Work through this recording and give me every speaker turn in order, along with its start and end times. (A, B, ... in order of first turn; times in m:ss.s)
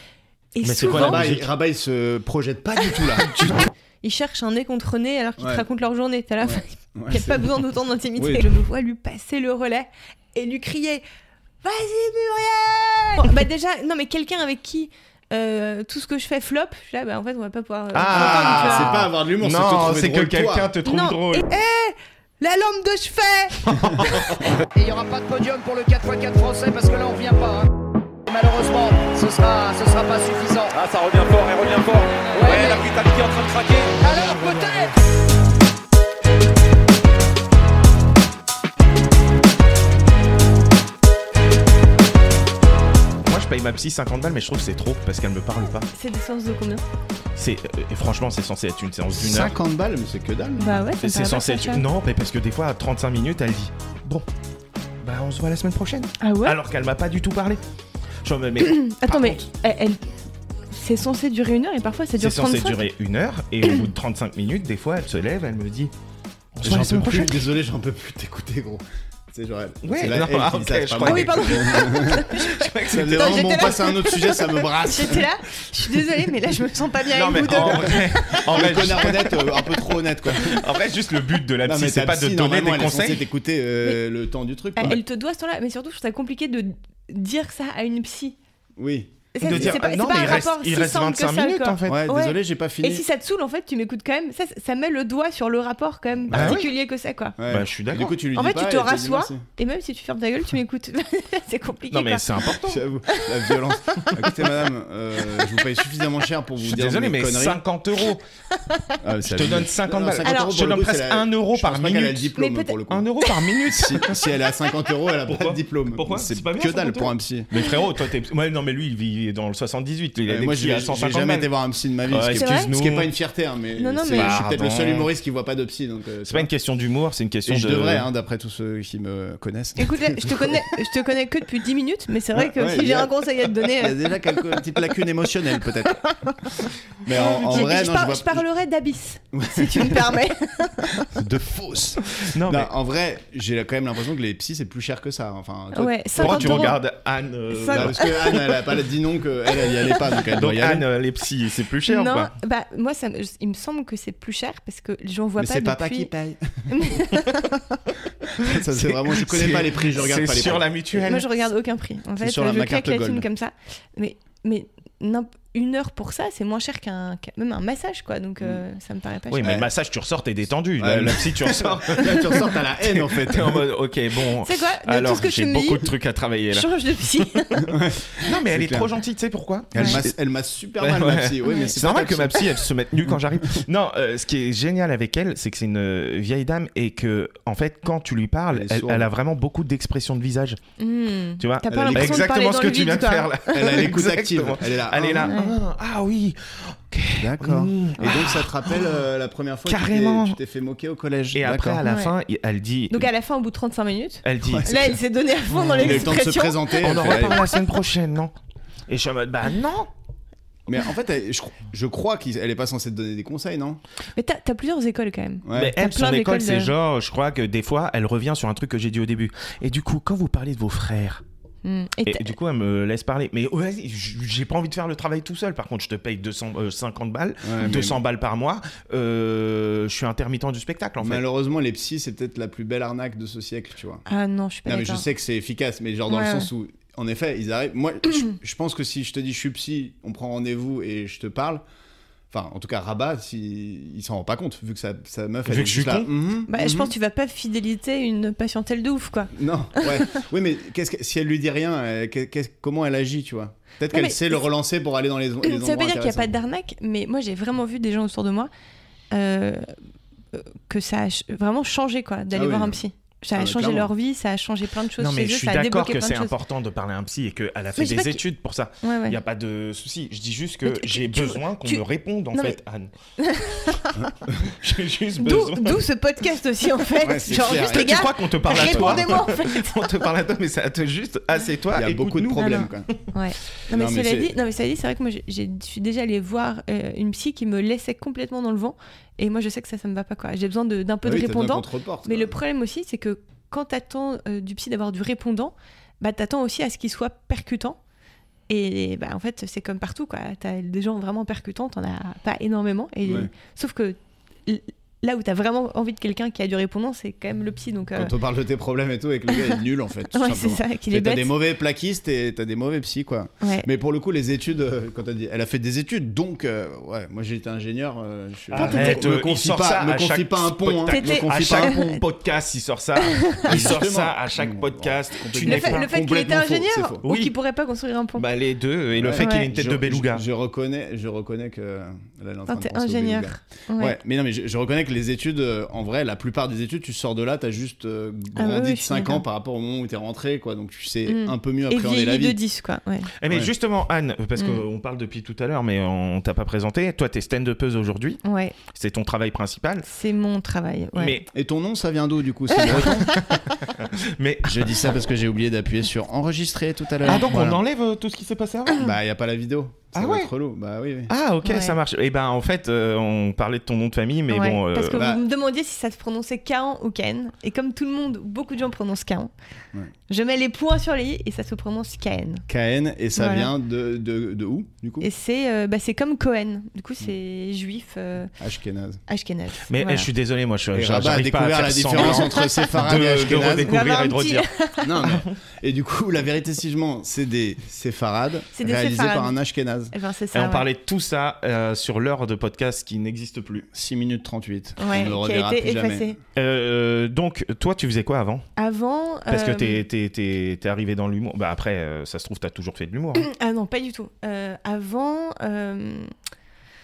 0:00.5-0:01.3 A
0:00.6-0:01.5 B
0:00.9-0:03.4 C
0:03.2-0:11.0 A
0:03.3-0:03.6 B
0:05.4-0:05.6 C
0:06.4-0:07.5 C
0:08.2-0:08.4 C
0:11.6-0:18.9 A
0:17.9-0:21.4 B
0:18.1-0:20.7 C
0:20.8-0:23.8 A
0:23.7-0:24.6 B
0:24.8-0:27.7 D
0:28.3-0:30.8 D
0:30.7-0:34.6 E
0:32.3-0:32.8 D
0:34.0-0:34.9 D
0:43.2-0:45.9 B
0:45.9-0:46.8 A
0:47.4-0:49.5 B
0:49.2-0:50.9 C
0:50.6-0:51.8 A
0:51.0-0:54.3 B
0:55.0-0:57.6 B
0:56.2-0:56.6 A
0:58.2-0:59.5 B
0:58.6-1:00.0 A
1:00.7-1:02.8 A
1:02.2-1:05.9 B
1:06.6-1:07.4 B
1:06.6-1:15.3 C
1:09.8-1:13.7 B
1:11.0-1:18.7 A
1:17.1-1:23.3 B
1:17.5-1:17.9 C
1:18.5-1:20.7 C
1:21.6-1:25.0 C
1:24.8-1:28.4 A
1:28.8-1:29.8 C
1:29.3-1:37.4 A
1:29.4-1:32.0 B
1:31.8-1:33.0 C
1:36.3-1:36.7 C
1:36.3-1:36.7 B
1:37.4-1:39.4 C
1:37.5-1:38.2 B
1:38.3-1:42.4 A
1:41.9-1:42.8 B
1:42.6-1:47.6 C
1:43.1-1:43.6 A
1:46.6-1:48.2 B
1:48.5-1:49.0 A
1:49.0-1:53.1 C
1:49.2-1:52.3 B
1:50.2-1:50.5 A
1:52.4-1:53.3 A
1:52.9-1:54.3 B
1:53.7-1:57.5 C
1:55.3-2:01.5 B
2:00.3-2:06.5 C
2:02.1-2:03.1 B
2:02.4-2:02.7 A
2:03.8-2:04.4 A
2:04.1-2:05.1 B
2:06.2-2:08.1 B
2:07.5-2:10.8 C
2:09.8-2:14.2 A
2:12.3-2:16.0 C
2:16.0-2:21.1 A
2:17.0-2:18.4 C
2:17.1-2:17.7 B
2:19.3-2:20.2 C
2:21.0-2:26.8 C
2:22.2-2:22.7 B
2:25.7-2:26.8 A
2:26.2-2:28.4 B
2:27.5-2:28.8 A
2:27.7-2:30.9 C
2:29.6-2:29.9 A
2:30.3-2:32.3 B
2:31.9-2:36.1 A
2:35.4-2:36.7 C
2:36.7-2:37.8 A
2:38.3-2:41.3 B
2:38.4-2:41.1 C
2:41.0-2:49.6 A
2:42.2-2:43.3 C
2:49.3-2:57.6 B
2:49.4-2:49.7 C
2:50.8-2:53.7 C
2:54.4-2:55.9 A
2:56.5-2:57.7 A
2:57.6-2:58.9 C
2:58.2-3:00.1 B
2:59.8-3:03.4 C
3:00.8-3:10.6 B
3:01.4-3:01.7 A
3:08.5-3:09.1 C
3:10.8-3:13.7 A
3:11.4-3:19.0 B
3:11.7-3:12.3 C
3:13.5-3:15.3 C
3:15.2-3:15.6 A
3:17.2-3:21.8 C
3:19.7-3:20.4 B
3:21.3-3:23.1 B
3:21.8-3:22.1 A
3:22.9-3:27.6 A
3:24.2-3:25.0 B
3:24.4-3:25.0 C
3:25.5-3:26.1 B
3:25.5-3:27.4 C
3:26.8-3:28.3 B
3:28.9-3:29.9 B
3:30.7-3:33.8 C
3:34.2-3:36.7 A
3:35.4-3:35.8 C
3:35.5-3:41.2 B
3:41.6-3:42.3 A
3:42.1-3:51.2 B
3:47.4-3:48.0 C
3:51.0-3:54.0 C
3:54.1-3:55.1 A
3:54.7-4:01.6 C
3:56.1-3:56.5 A
4:02.3-4:06.9 C
4:05.5-4:06.1 B
4:06.5-4:10.1 A
4:09.3-4:16.3 C
4:13.9-4:14.4 A
4:15.4-4:18.5 A
4:19.1-4:19.8 A
4:20.3-4:26.3 A
4:22.3-4:22.8 C
4:23.3-4:23.9 C
4:25.0-4:32.9 B
4:27.8-4:28.2 A
4:28.8-4:29.2 A
4:30.6-4:31.8 A
4:33.2-4:34.1 A
4:34.5-4:35.8 B
4:35.2-4:40.1 A
4:37.0-4:39.3 C
4:37.3-4:42.6 B
4:41.7-4:42.9 C
4:42.4-4:57.8 A
4:43.7-4:44.3 C
4:51.0-4:52.4 C
4:58.5-5:08.1 A
5:03.0-5:03.3 C
5:08.0-5:21.8 C
5:10.1-5:11.3 A
5:13.4-5:13.7 A
5:18.5-5:25.9 B
5:18.5-5:19.0 A
5:20.9-5:22.0 A
5:23.0-5:23.6 A
5:23.4-5:27.0 C
5:25.4-5:28.2 A
5:27.0-5:27.4 B
5:28.2-5:30.2 B
5:29.0-5:42.4 C
5:29.2-5:29.5 A
5:32.5-5:34.0 A
5:38.4-5:39.2 A
5:41.1-5:43.1 A
5:43.2-5:49.9 B
5:44.4-5:44.6 A
5:48.2-5:48.6 A
5:49.8-5:51.2 A
5:51.0-5:51.3 B
5:51.3-5:53.1 C
5:52.5-5:53.4 A
5:52.7-5:54.8 B
5:54.4-5:57.6 C
5:57.0-5:58.9 B
5:58.8-6:01.1 C
5:59.9-6:00.3 B
6:01.1-6:05.1 B
6:01.4-6:01.8 A
6:04.3-6:09.3 A
6:05.0-6:05.2 C
6:10.1-6:12.5 A
6:12.5-6:15.1 C
6:13.2-6:13.5 A
6:15.0-6:18.3 A
6:18.4-6:19.0 C
6:19.1-6:20.1 A
6:19.7-6:24.5 B
6:20.7-6:23.7 C
6:22.1-6:22.7 A
6:23.4-6:25.0 A
6:24.8-6:29.9 C
6:25.0-6:25.3 B
6:28.5-6:29.4 A
6:29.9-6:30.7 A
6:30.3-6:33.7 B
6:33.7-6:36.2 C
6:34.8-6:36.2 A
6:36.4-6:38.5 B
6:38.6-6:39.8 A
6:39.3-6:43.3 B
6:43.2-6:46.1 A